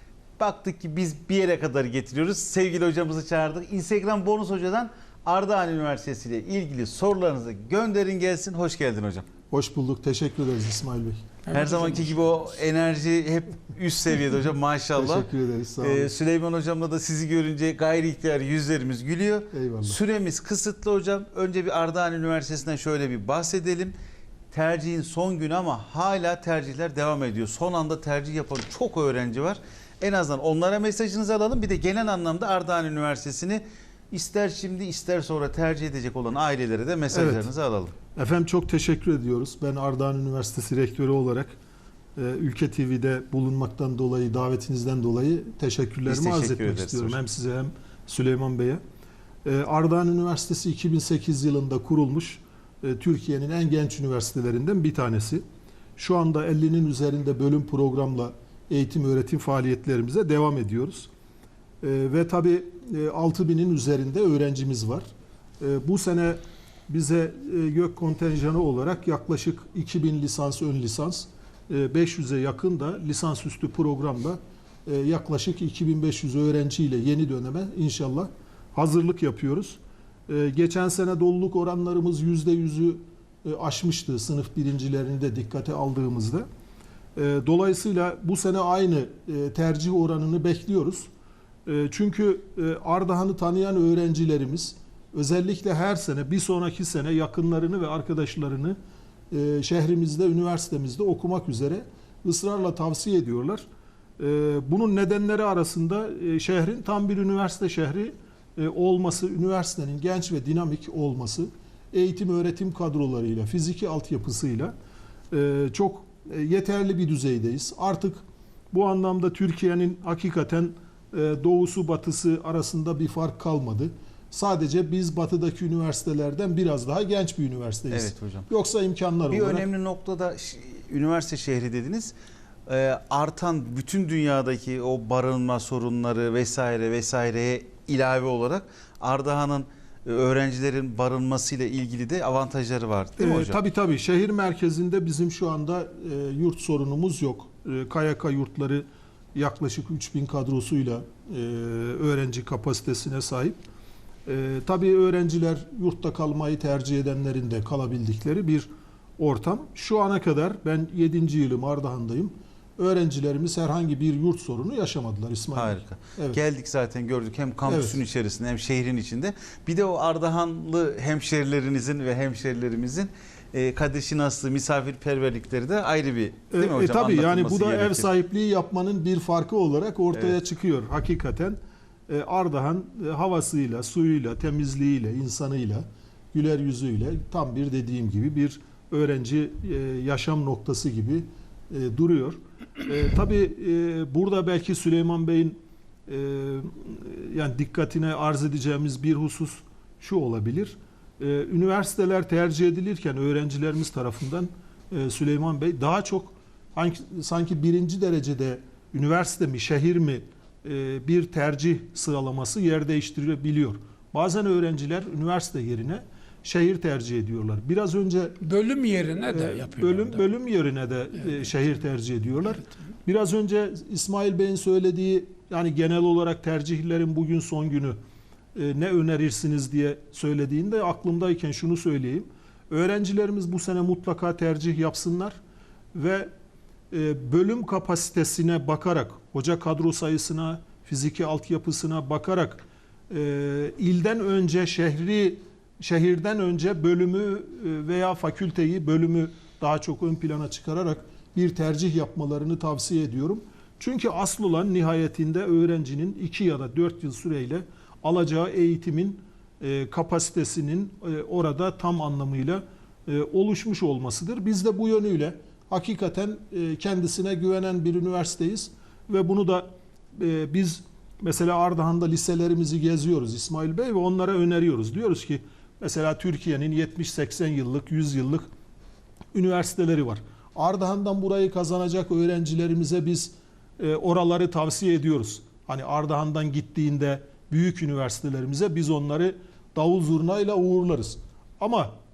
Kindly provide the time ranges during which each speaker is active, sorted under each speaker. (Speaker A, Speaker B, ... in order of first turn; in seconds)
Speaker A: 0.4-9.3, 11.5-15.3, 15.8-23.9, 24.5-38.0, 46.1-47.2, 127.9-128.5, 129.3-132.1, 132.7-143.6, 165.6-178.1
Speaker B: 9.5-11.3, 15.0-16.1, 19.5-20.0, 37.1-37.5, 38.1-41.5, 42.2-48.8, 49.5-55.4, 56.0-61.1, 61.8-65.0, 65.6-86.5, 87.2-91.1, 91.7-98.8, 99.3-103.7, 104.2-114.7, 115.3-129.7, 143.2-153.6, 154.3-166.4, 167.7-168.0, 176.5-218.4, 219.3-228.0, 228.6-235.4, 235.9-236.3, 236.9-278.5, 279.3-291.9
Speaker C: 11.5-12.2, 218.4-220.3, 221.2-221.5